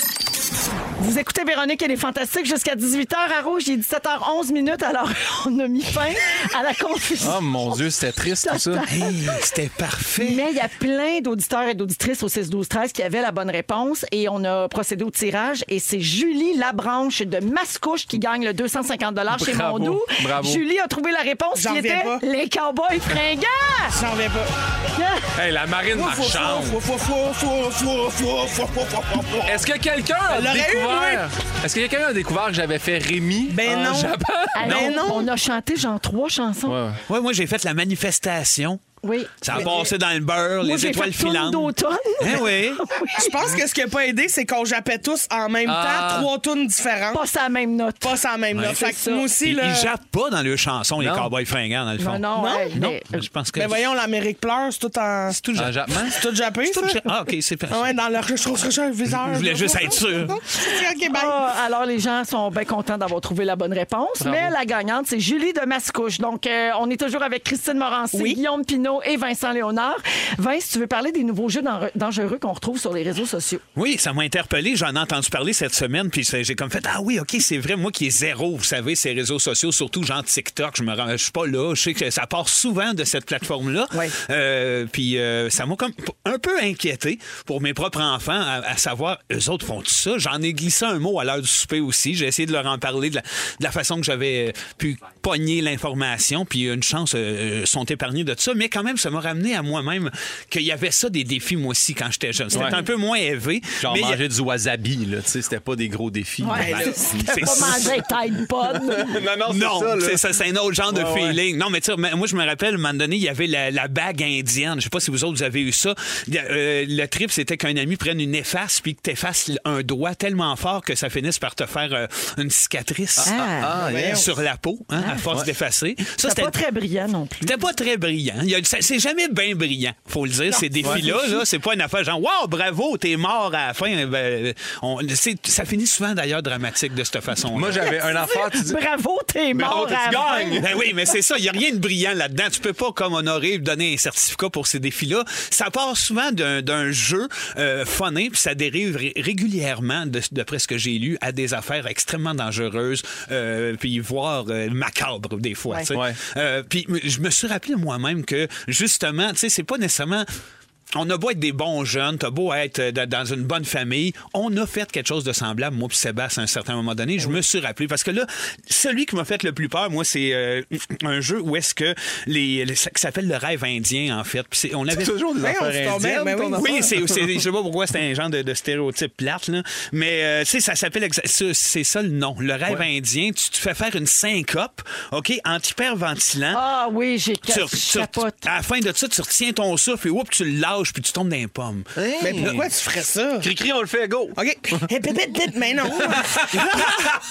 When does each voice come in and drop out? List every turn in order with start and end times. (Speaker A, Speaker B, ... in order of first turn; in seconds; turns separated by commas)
Speaker A: 1.0-7.8, Speaker B: 7.2-8.8, Speaker A: 8.4-9.2, Speaker C: 8.9-10.4, Speaker A: 10.2-24.0, Speaker B: 19.3-20.6, Speaker D: 21.5-22.2, Speaker D: 23.9-24.5, Speaker A: 24.9-25.2, Speaker B: 25.3-26.8, Speaker D: 25.9-29.6, Speaker B: 29.4-35.0, Speaker D: 30.3-31.2, Speaker D: 33.5-35.3, Speaker A: 34.5-36.8, Speaker B: 36.6-37.0, Speaker C: 37.1-38.8, Speaker A: 39.0-39.6, Speaker C: 39.4-42.8, Speaker D: 39.5-39.9, Speaker A: 40.6-43.6, Speaker D: 43.1-47.2, Speaker B: 45.6-46.3, Speaker A: 47.1-49.3, Speaker D: 48.0-49.9, Speaker C: 49.4-53.8, Speaker B: 51.0-51.3, Speaker A: 52.0-53.3, Speaker D: 52.3-52.8, Speaker D: 53.5-55.4, Speaker C: 55.3-58.0, Speaker B: 55.5-56.2, Speaker D: 56.0-57.1, Speaker D: 57.7-61.4, Speaker C: 59.2-60.4, Speaker A: 61.1-73.6, Speaker B: 64.2-64.5, Speaker D: 68.1-68.4, Speaker C: 73.8-104.2, Speaker B: 102.5-102.8, Speaker A: 102.5-102.8, Speaker B: 103.8-110.2, Speaker A: 106.4-109.2, Speaker D: 106.6-106.9, Speaker C: 106.6-107.9, Speaker C: 109.5-123.4, Speaker B: 110.9-111.4, Speaker B: 123.2-124.2, Speaker A: 123.2-123.7, Speaker D: 123.8-124.3, Speaker C: 124.0-126.6, Speaker A: 125.0-125.2, Speaker A: 126.2-127.5, Speaker C: 127.4-137.9, Speaker D: 130.5-131.0, Speaker B: 137.5-138.8, Speaker A: 137.8-140.6, Speaker B: 139.5-140.8, Speaker C: 140.6-160.3, Speaker B: 155.9-156.2, Speaker C: 160.9-175.1, Speaker B: 174.9-177.2, Speaker D: 175.4-176.9, Speaker C: 176.6-186.6, Speaker A: 186.5-188.4, Speaker C: 187.5-192.4, Speaker B: 191.9-192.7, Speaker D: 192.2-193.5, Speaker B: 193.4-194.4, Speaker D: 194.3-196.9